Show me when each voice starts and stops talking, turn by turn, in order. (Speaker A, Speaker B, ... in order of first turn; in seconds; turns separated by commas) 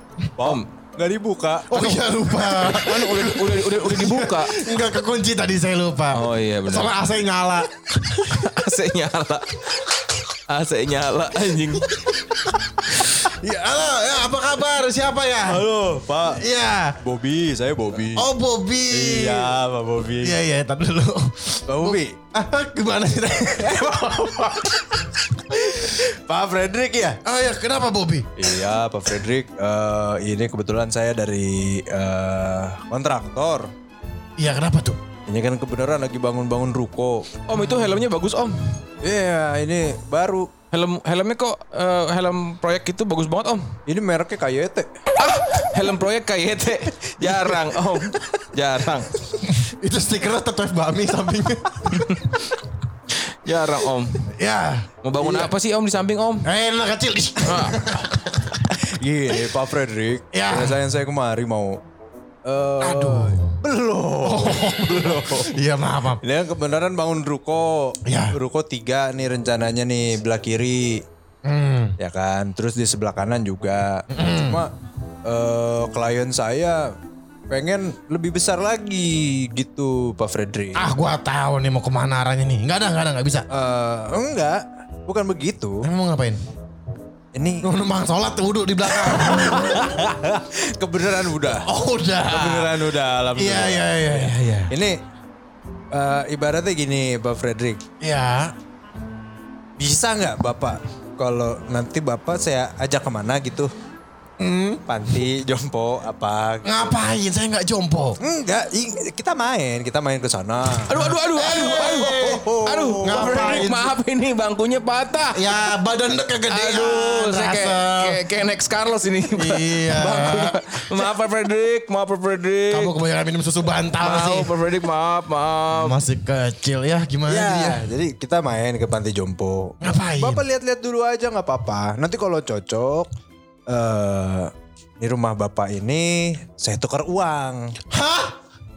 Speaker A: 0.4-2.0, Speaker B: 0.4-0.7, Speaker C: 1.7-8.3, Speaker B: 2.4-4.5, Speaker B: 6.1-6.9, Speaker B: 8.2-11.9, Speaker C: 11.9-15.7, Speaker A: 15.5-16.4, Speaker C: 16.4-17.0, Speaker A: 17.0-18.3, Speaker C: 18.1-19.5, Speaker A: 18.9-20.4, Speaker C: 20.2-24.0, Speaker A: 21.7-22.2, Speaker A: 23.6-27.2, Speaker C: 25.5-25.8, Speaker C: 27.2-28.3, Speaker A: 28.4-33.7, Speaker C: 34.4-35.0, Speaker A: 35.3-37.3, Speaker B: 37.5-38.8, Speaker A: 39.0-40.5, Speaker B: 40.7-43.8, Speaker A: 43.9-44.9, Speaker B: 45.2-49.1, Speaker C: 49.4-52.3, Speaker B: 51.9-52.3, Speaker B: 53.1-54.2, Speaker C: 54.2-54.9, Speaker B: 55.0-56.5, Speaker A: 55.2-55.5, Speaker C: 56.4-58.6, Speaker B: 57.4-57.9, Speaker A: 58.8-61.8, Speaker C: 60.3-60.8, Speaker A: 62.5-65.5, Speaker C: 62.8-63.6, Speaker C: 64.2-66.2, Speaker A: 66.2-71.0, Speaker C: 68.0-68.4, Speaker C: 71.4-72.0, Speaker A: 72.0-74.7, Speaker C: 74.1-74.6, Speaker A: 75.2-77.0, Speaker A: 77.5-80.9, Speaker C: 80.8-83.5, Speaker A: 83.5-85.9, Speaker C: 85.8-86.4, Speaker A: 87.3-87.7, Speaker C: 87.6-89.9, Speaker A: 89.0-91.7, Speaker C: 91.5-92.8, Speaker A: 92.3-95.0, Speaker C: 93.4-94.7, Speaker A: 95.9-97.8, Speaker C: 98.0-98.5, Speaker A: 99.8-103.7, Speaker C: 104.4-104.8, Speaker A: 104.9-107.0, Speaker C: 106.6-108.2, Speaker A: 108.2-113.7, Speaker B: 110.8-115.6, Speaker C: 110.9-112.5, Speaker C: 113.0-113.9, Speaker C: 115.3-118.2, Speaker B: 116.5-122.9, Speaker C: 119.4-121.1, Speaker C: 122.7-124.5, Speaker B: 124.0-126.0, Speaker C: 125.7-127.8, Speaker A: 127.3-133.1, Speaker C: 129.8-130.4, Speaker A: 133.7-137.8, Speaker C: 137.9-138.4